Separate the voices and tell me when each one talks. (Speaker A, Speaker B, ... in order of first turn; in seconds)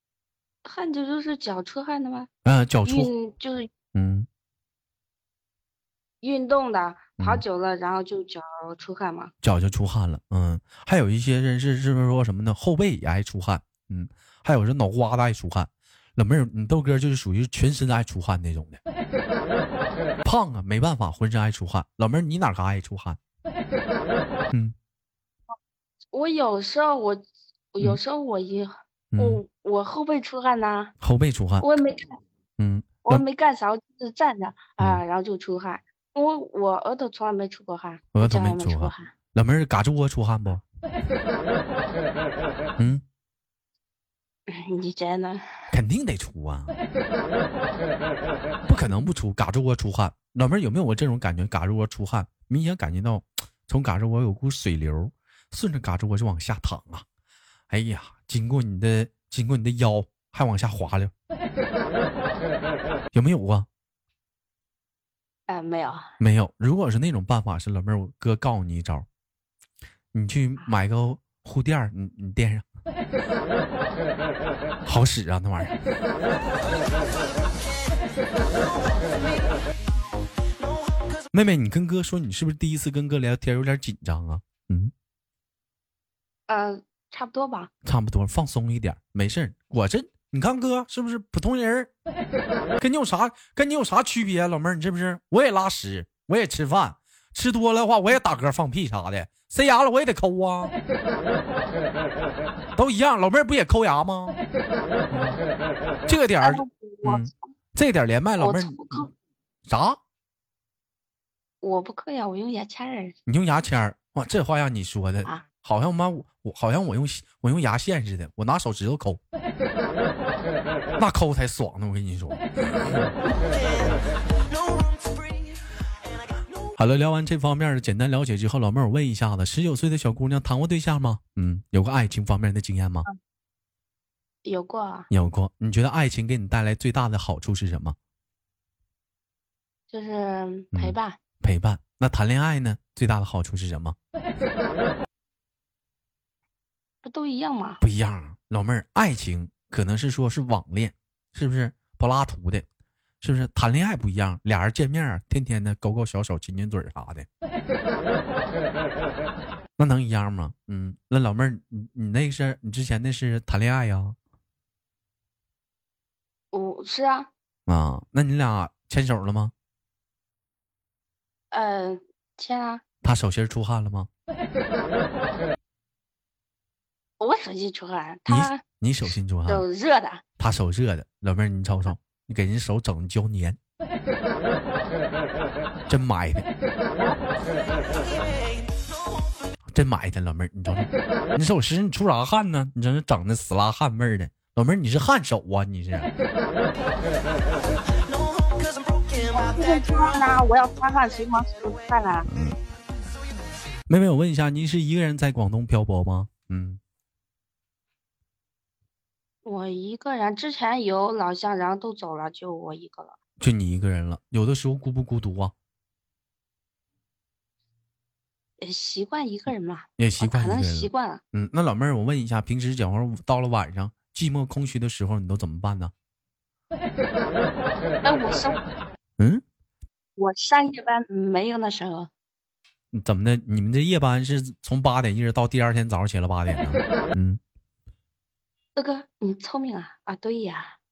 Speaker A: 0.6-2.3, 2.8-3.7, 6.2-9.3, 26.1-30.9, 31.6-32.2, 33.0-39.1, 44.5-45.7, 65.5-66.0, 86.5-87.7, 106.4-107.3, 108.4-109.1, 111.6-113.1, 134.4-135.1, 139.9-141.2, 147.0-147.8, 166.5-167.3, 171.5-172.8, 177.2-178.6, 179.5-180.2, 199.2-202.3, 209.4-213.2, 218.6-221.2, 228.0-228.6, 230.2-232.1, 238.8-240.8
Speaker B: 2.4-3.1, 3.9-4.3, 9.4-18.8, 20.2-23.2, 29.1-29.4, 31.0-31.6, 32.6-33.2, 38.1-40.6, 42.8-43.0, 45.7-46.7, 48.6-57.0, 57.7-61.1, 63.1-63.7, 66.2-69.0, 70.1-72.7, 74.8-75.8, 81.3-84.9, 87.8-91.9, 92.8-100.7, 102.7-104.4, 105.1-105.4, 106.1-109.1, 109.7-110.0, 113.3-119.2, 121.0-123.1, 126.8-133.1, 135.1-137.9, 140.7-143.9, 147.8-152.7, 153.2-157.3, 159.8-164.2, 167.7-169.5, 173.0-174.1, 178.3-179.6, 180.4-183.6, 185.9-186.5, 189.7-196.1, 202.3-202.6, 203.9-206.8, 213.4-215.5, 220.0-225.9, 229.2-229.4, 232.9-237.4
Speaker C: 78.9-79.4, 123.3-125.6, 187.9-188.9, 197.9-200.4